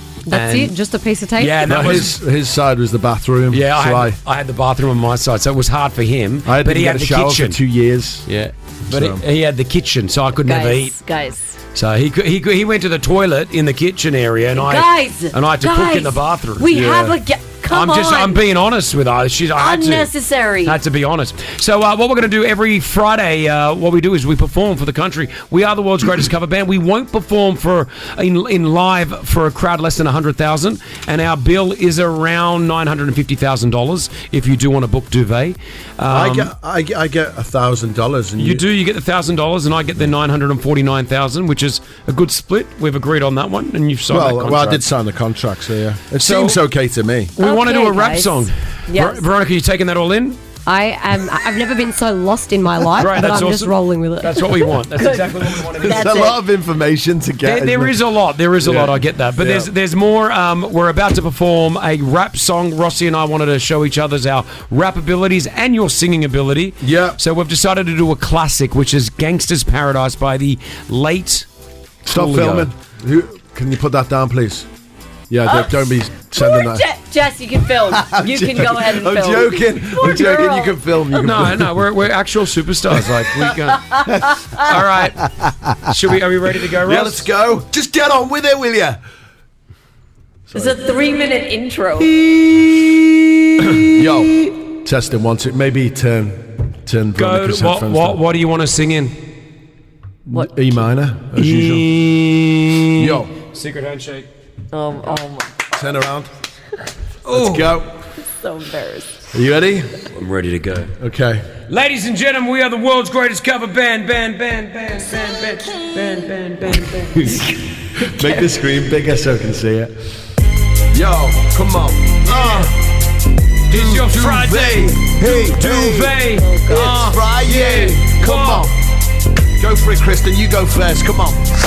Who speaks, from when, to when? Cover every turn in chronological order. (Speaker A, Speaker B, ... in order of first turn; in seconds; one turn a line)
Speaker A: 0.3-1.8
Speaker B: 0.3-0.7
Speaker B: 1.4-2.1
Speaker C: 1.6-4.2
Speaker B: 3.5-7.6
Speaker C: 6.4-8.3
Speaker B: 8.3-10.9
Speaker C: 8.9-9.2
Speaker D: 10.4-11.5
Speaker B: 11.7-16.8
Speaker D: 14.5-18.4
Speaker C: 16.7-17.2
Speaker B: 17.7-20.1
Speaker D: 19.6-20.8
Speaker B: 20.6-36.5
Speaker C: 36.1-38.6
Speaker B: 38.4-44.8
Speaker C: 44.1-47.3
Speaker B: 46.2-46.6
Speaker B: 47.4-50.4
Speaker D: 47.4-48.3
Speaker D: 48.9-49.2
Speaker A: 50.6-54.7
Speaker B: 53.0-56.2
Speaker D: 55.0-56.4
Speaker C: 55.8-58.0
Speaker B: 57.4-71.5
Speaker C: 58.6-59.7
Speaker C: 66.8-67.2
Speaker C: 72.0-74.7
Speaker B: 72.1-72.7
Speaker C: 75.3-76.8
Speaker D: 75.5-75.7
Speaker D: 76.3-80.7
Speaker C: 77.9-81.8
Speaker B: 81.2-84.0
Speaker B: 84.6-85.2
Speaker B: 85.9-87.2
Speaker C: 86.8-89.0
Speaker C: 90.5-90.8
Speaker D: 90.5-92.1
Speaker C: 93.7-98.2
Speaker B: 97.2-99.2
Speaker C: 100.3-101.9
Speaker B: 101.3-104.3
Speaker C: 103.0-103.3
Speaker D: 104.7-105.5
Speaker C: 105.7-106.3
Speaker B: 107.2-107.8
Speaker C: 107.3-107.9
Speaker D: 108.3-109.2
Speaker C: 109.3-109.9
Speaker B: 110.1-110.9
Speaker C: 111.0-111.4
Speaker B: 111.7-117.5
Speaker C: 118.1-119.9
Speaker C: 120.9-122.7
Speaker B: 122.3-122.7
Speaker C: 123.7-128.7
Speaker B: 123.7-128.7
Speaker C: 129.6-131.4